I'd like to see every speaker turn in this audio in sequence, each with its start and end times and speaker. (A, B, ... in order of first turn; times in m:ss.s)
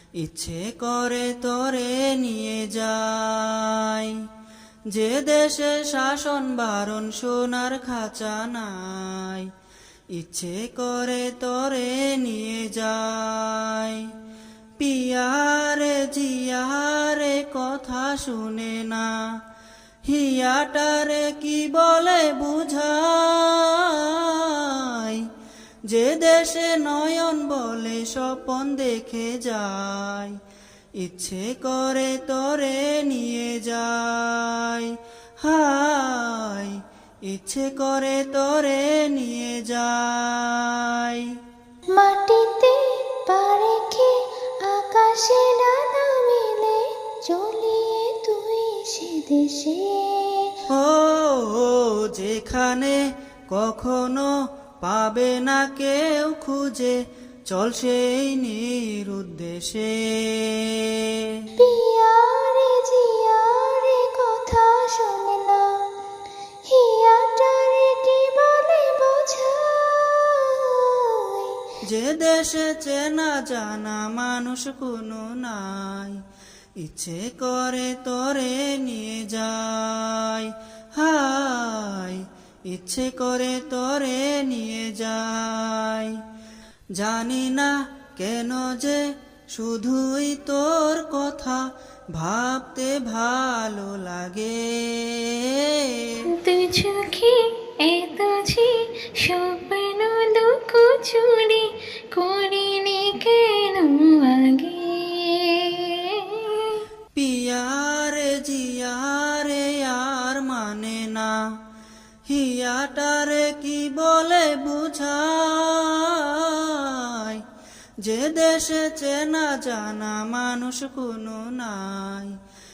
0:00.2-0:04.2 A
0:04.9-0:09.5 A
0:10.1-0:14.1 A
0:14.8-0:19.2 A
0:20.0-0:25.2 A
0:25.9-0:30.3 A
0:31.0-0:41.3 A
0:42.0-0:50.6 B
0:50.7-1:01.3 A
1:01.6-1:05.7 B
1:06.7-1:11.6 B
1:11.8-1:16.2 A
1:16.8-1:26.1 A
1:27.0-1:29.0 A
1:29.5-1:31.6 A
1:32.2-1:36.2 A
1:36.3-1:46.8 B
1:47.1-1:51.4 A
1:52.3-1:57.4 A
1:58.0-2:02.3 A